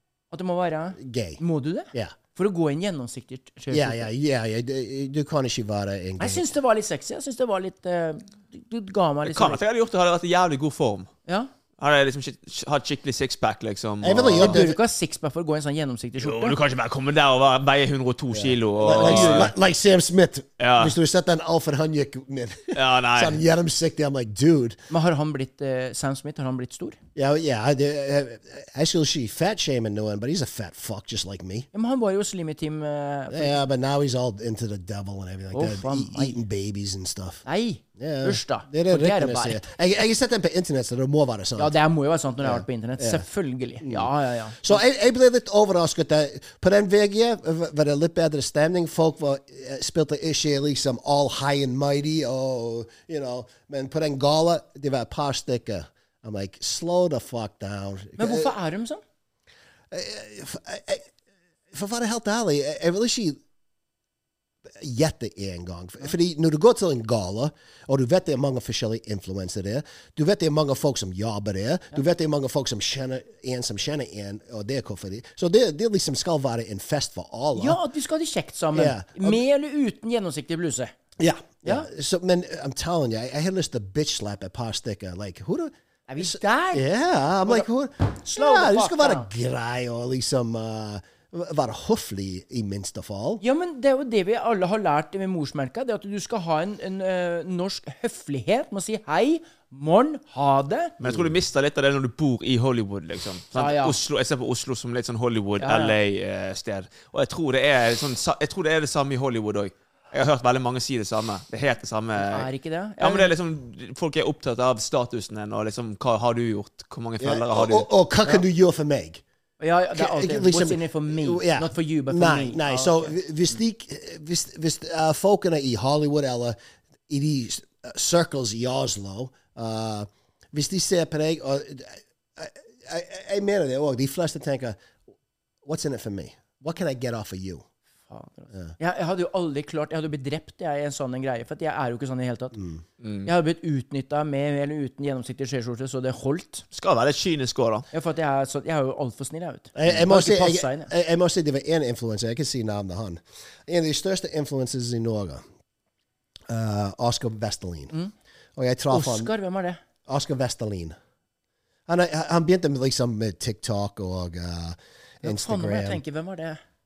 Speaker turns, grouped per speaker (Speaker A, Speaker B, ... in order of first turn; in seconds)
Speaker A: 0.3-4.1, 6.2-9.6, 14.4-16.6, 18.9-19.4, 24.9-27.0, 31.7-33.6, 35.5-36.4, 37.4-39.6, 41.6-44.8, 58.2-59.0, 77.5-80.9, 86.1-86.8, 88.2-89.3, 93.4-100.9, 103.5-104.0, 105.6-106.0, 112.2-113.3, 119.6-123.1, 138.1-142.6, 143.2-146.6, 147.9-150.9, 158.9-159.8, 165.2-166.6
Speaker B: 1.0-1.4, 3.7-6.5, 14.0-14.8, 18.3-24.8, 27.1-31.7, 33.3-37.4, 38.0-41.8, 42.4-43.2, 43.8-58.5, 59.9-61.0, 61.7-63.4, 64.7-77.8, 78.7-79.4, 81.2-93.4, 101.0-101.3, 117.2-119.2, 119.9-126.6, 127.1-134.8, 135.6-137.7, 142.5-142.8, 149.7-155.4, 156.5-157.9, 158.6-159.3, 160.1-160.9, 161.9-166.0
Speaker C: 9.3-11.1, 11.8-14.6, 16.2-19.5, 20.6-20.9, 22.7-23.4, 101.0-117.9, 143.0-143.3, 146.7-147.8